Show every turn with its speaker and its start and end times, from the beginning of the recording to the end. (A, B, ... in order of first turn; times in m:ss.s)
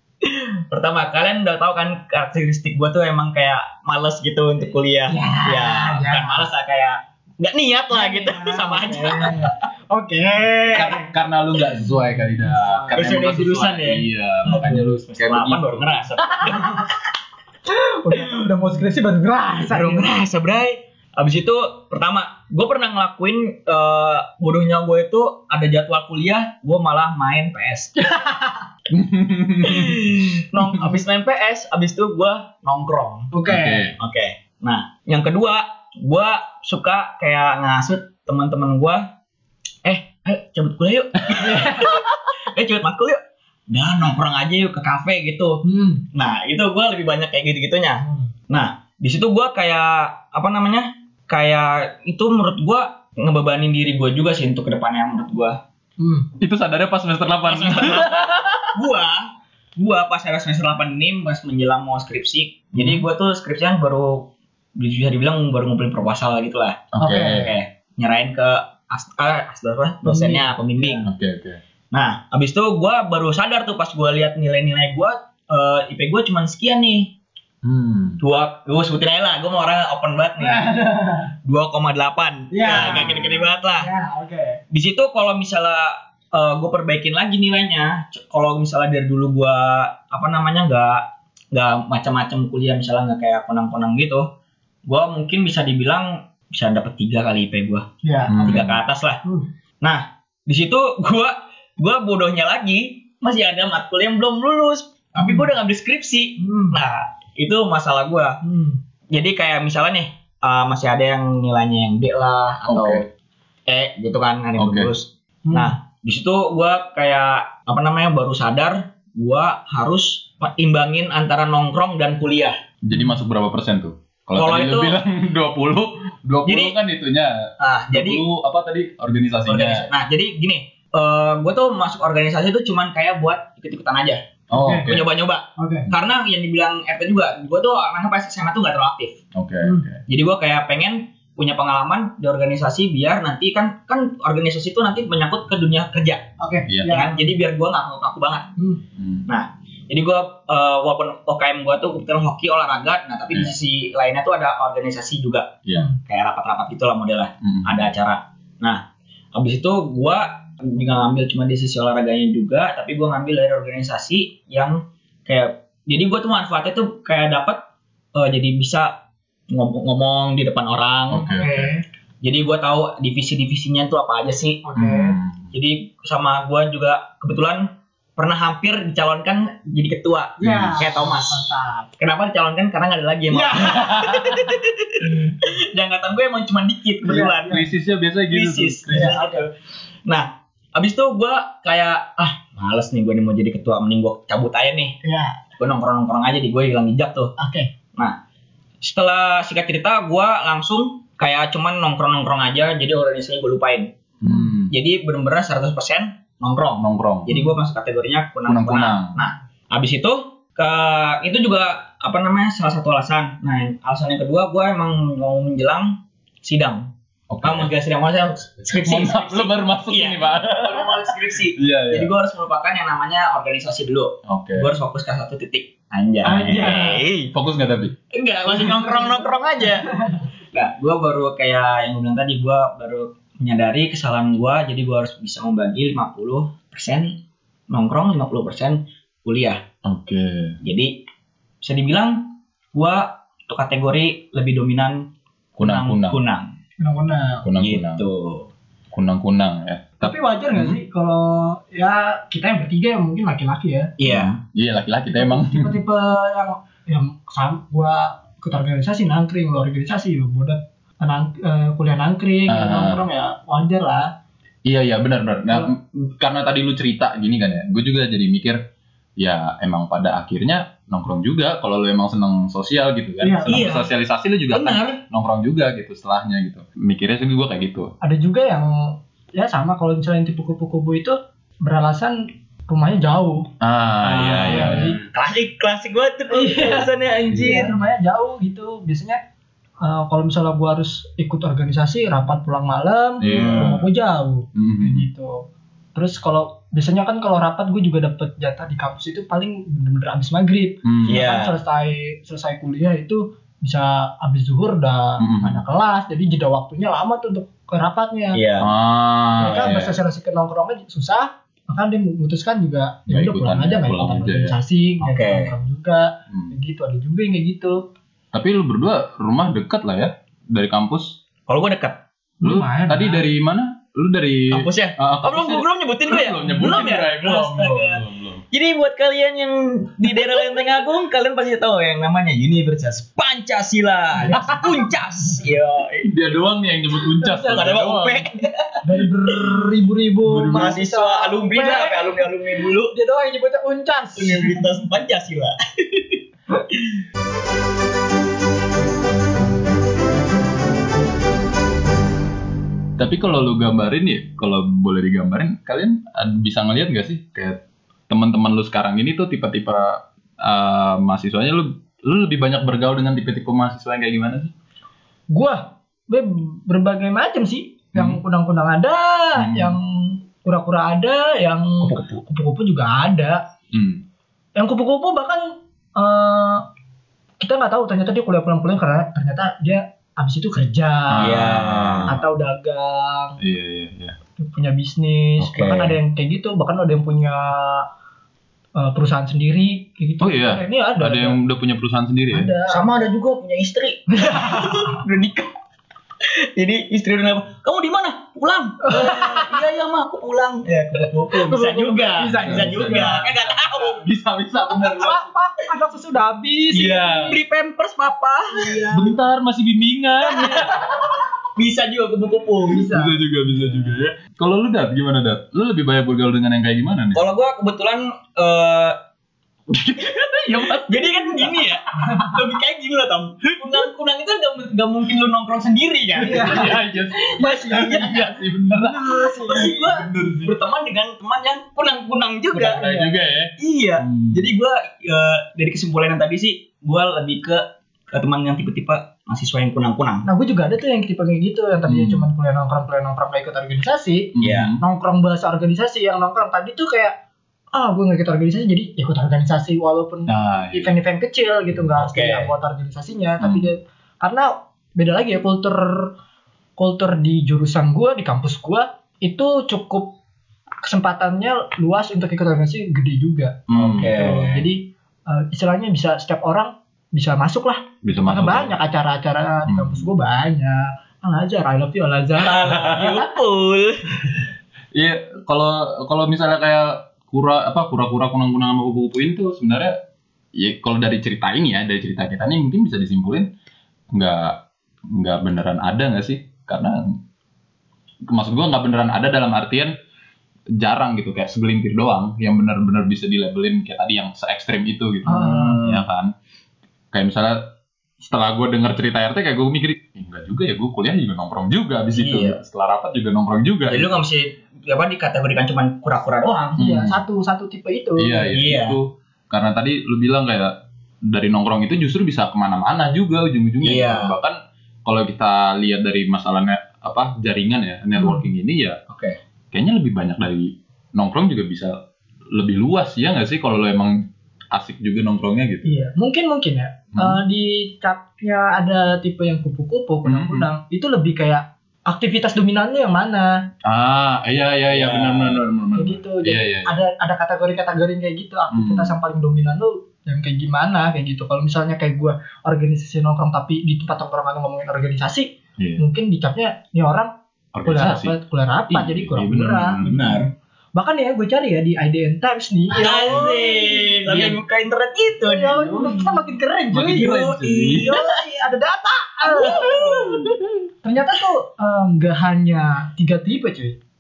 0:00.2-0:09.5 A
0:05.1-0:06.5 B
0:07.9-0:11.1 B
0:10.7-0:16.1 C
0:11.8-0:13.2 B
0:13.0-0:17.0 A
0:14.5-0:14.9 B
0:16.4-0:16.8 B
0:17.7-0:20.1 B
0:19.7-0:28.0 A
0:28.0-0:28.6 B
0:28.9-0:30.1 C
0:29.6-0:33.3 A
0:33.3-0:33.9 B
0:33.5-0:34.0 C
0:34.0-0:39.1 A
0:39.8-0:55.6 A
0:41.3-0:42.0 B
0:45.6-0:46.1 B
0:48.0-0:48.3 B
0:56.0-0:56.3 B
0:56.4-0:58.7 C
0:57.5-1:11.1 A
1:02.7-1:03.0 C
1:06.9-1:07.6 C
1:07.0-1:07.5 B
1:10.0-1:11.0 B
1:11.0-1:11.6 C
1:11.9-1:17.1 A
1:17.6-1:18.2 C
1:18.2-1:20.7 A
1:20.4-1:21.3 B
1:21.4-1:23.9 A
1:22.5-1:24.6 B
1:23.0-1:23.3 C
1:24.7-1:34.3 A
1:34.9-1:39.2 A
1:38.0-1:38.6 B
1:38.3-1:38.8 C
1:39.8-1:48.4 A
1:45.2-1:45.5 B
1:46.4-1:46.8 B
1:48.4-1:48.8 B
1:49.1-1:53.0 A
1:52.7-1:53.1 C
1:53.7-2:02.6 A
1:54.6-1:54.9 C
1:55.5-1:55.7 B
2:02.8-2:09.9 C
2:04.4-2:05.0 A
2:06.4-2:06.8 A
2:07.6-2:08.2 A
2:09.5-2:14.2 A
2:14.5-2:15.0 C
2:14.5-2:14.9 B
2:14.8-2:19.2 A
2:15.6-2:15.9 B
2:19.3-2:20.0 C
2:20.1-2:26.3 A
2:26.4-2:27.4 B
2:26.7-2:27.0 C
2:26.9-2:28.5 A
2:28.6-2:28.8 B
2:29.0-2:29.3 C
2:29.3-2:38.8 A
2:37.4-2:38.0 C
2:39.4-2:47.6 A
2:48.2-2:49.0 A
2:49.5-2:51.4 A
2:51.1-2:51.7 C
2:51.3-2:51.8 B
2:52.2-2:54.7 A
2:54.6-2:55.2 B
2:54.8-2:55.5 C
2:55.5-3:07.6 A
3:00.4-3:01.9 B
3:00.4-3:00.9 C
3:03.3-3:04.0 B
3:03.7-3:04.4 C
3:05.0-3:05.3 B
3:07.0-3:07.6 B
3:07.5-3:09.2 C
3:08.3-3:09.5 A
3:08.9-3:09.4 B
3:10.1-3:15.0 A
3:15.0-3:15.4 B
3:15.6-3:17.3 A
3:17.4-3:17.7 B
3:18.8-3:23.9 A
3:24.2-3:24.7 C
3:24.3-3:24.5 B
3:24.7-3:36.9 A
3:26.8-3:27.3 C
3:27.3-3:27.6 B
3:28.5-3:29.2 C
3:37.3-3:37.7 C
3:37.4-3:47.3 A
3:38.7-3:42.1 C
3:44.3-3:44.7 C
3:46.2-3:47.0 B
3:47.3-3:48.0 C
3:48.1-3:57.2 A
3:48.5-3:50.2 B
3:57.7-3:59.6 A
3:59.8-4:00.6 C
4:00.6-4:01.0 A
4:01.6-4:06.5 A
4:05.6-4:06.2 C
4:06.8-4:07.5 B
4:07.4-4:08.0 C
4:07.6-4:08.5 A
4:08.9-4:10.8 C
4:10.0-4:13.9 B
4:14.0-4:14.4 A
4:14.0-4:15.8 C
4:15.1-4:24.1 B
4:22.5-4:23.0 C
4:24.6-4:28.6 C
4:29.2-4:37.9 C
4:33.2-4:33.7 B
4:33.5-4:33.9 A
4:34.5-4:35.0 A
4:38.0-4:43.5 B
4:43.6-4:45.0 C
4:44.0-4:45.0 B
4:44.2-4:47.8 A
4:46.3-4:49.2 B
4:49.8-5:08.4 B
4:53.2-4:53.9 C
4:53.3-4:53.6 A
4:54.6-4:55.1 C
5:00.8-5:01.2 C
5:01.1-5:01.6 A
5:05.2-5:05.6 C
5:08.3-5:08.7 A
5:08.6-5:10.0 C
5:09.4-5:17.8 B
5:13.1-5:14.6 C
5:15.0-5:15.5 A
5:16.3-5:16.5 C
5:18.3-5:21.2 C
5:21.5-5:22.0 A
5:22.4-5:23.3 B
5:22.4-5:28.4 C
5:24.5-5:36.1 A
5:34.2-5:34.7 B
5:34.4-5:34.7 C
5:36.0-5:38.3 C
5:37.2-5:37.7 B
5:37.5-5:38.8 A
5:38.8-5:42.3 B
5:40.3-5:40.7 C
5:40.5-5:42.9 A
5:42.9-5:44.7 B
5:44.2-5:46.2 A
5:53.0-6:04.5 C
6:05.3-6:13.4 B
6:08.0-6:08.2 C
6:09.4-6:09.8 C
6:11.8-6:12.1 A
6:13.7-6:14.0 C
6:14.6-6:16.6 B
6:17.4-6:23.4 B
6:21.1-6:22.2 C
6:21.2-6:22.1 A
6:23.4-6:24.2 C
6:24.4-6:27.9 B
6:25.4-6:26.0 A
6:28.8-6:31.4 B
6:30.2-6:32.5 C
6:32.3-6:33.0 B
6:32.7-6:35.5 A
6:34.1-6:35.0 B
6:36.2-6:44.0 A
6:38.8-6:39.6 B
6:41.3-6:43.3 B
6:42.4-6:45.3 C
6:44.8-6:47.4 B
6:46.7-6:48.8 A
6:46.8-6:47.4 C
6:48.6-6:49.2 B
6:48.9-6:50.8 C
6:50.4-6:50.8 A
6:51.6-6:52.9 A
6:52.7-6:54.0 B
6:52.9-6:57.2 C
6:57.1-6:59.0 A
6:59.7-7:01.5 C
7:00.7-7:08.4 A
7:02.1-7:02.3 B
7:06.2-7:08.2 B
7:06.3-7:10.5 C
7:08.8-7:10.0 B
7:09.5-7:12.8 A
7:12.6-7:14.5 C
7:12.6-7:13.3 B
7:13.6-7:20.3 A
7:20.2-7:27.2 B
7:21.9-7:22.2 C
7:24.4-7:24.8 C
7:24.4-7:24.7 A
7:27.7-7:36.1 B
7:30.3-7:31.0 C
7:32.0-7:32.5 A
7:33.4-7:33.7 C
7:36.8-7:40.1 B
7:40.8-7:53.1 B
7:43.7-7:44.6 C
7:43.8-7:44.6 A
7:48.0-7:48.8 C
7:49.7-7:50.1 C
7:52.4-7:54.0 A
7:52.7-7:53.2 C
7:54.9-8:00.0 C
8:00.6-8:03.5 C
8:04.1-8:07.2 C
8:08.3-8:09.9 C
8:10.8-8:16.3 C
8:15.2-8:15.8 B
8:15.6-8:16.0 A
8:17.1-8:24.1 C
8:22.1-8:22.6 A
8:23.9-8:26.8 A
8:26.8-8:27.2 C
8:26.8-8:28.6 B
8:28.2-8:30.8 C
8:28.5-8:29.0 A
8:31.3-8:39.0 C
8:33.8-8:34.3 A
8:38.2-8:38.5 B
8:39.1-8:39.4 A
8:39.7-8:42.0 C
8:42.5-8:45.9 C
8:45.8-8:53.5 B
8:47.1-8:47.4 C
8:50.2-8:50.7 C
8:53.8-8:56.9 C
8:54.9-8:55.6 A
8:56.0-9:07.3 B
8:58.7-8:59.1 C
9:05.8-9:06.0 C
9:07.8-9:08.4 C
9:07.9-9:10.0 B
9:08.9-9:10.4 C
9:10.0-9:10.5 A
9:11.0-9:14.1 B
9:13.0-9:16.2 A
9:14.3-9:14.6 C
9:15.5-9:17.4 B
9:16.9-9:18.1 C
9:17.0-9:18.4 A
9:17.9-9:20.5 B
9:19.4-9:20.5 A
9:21.0-9:24.0 B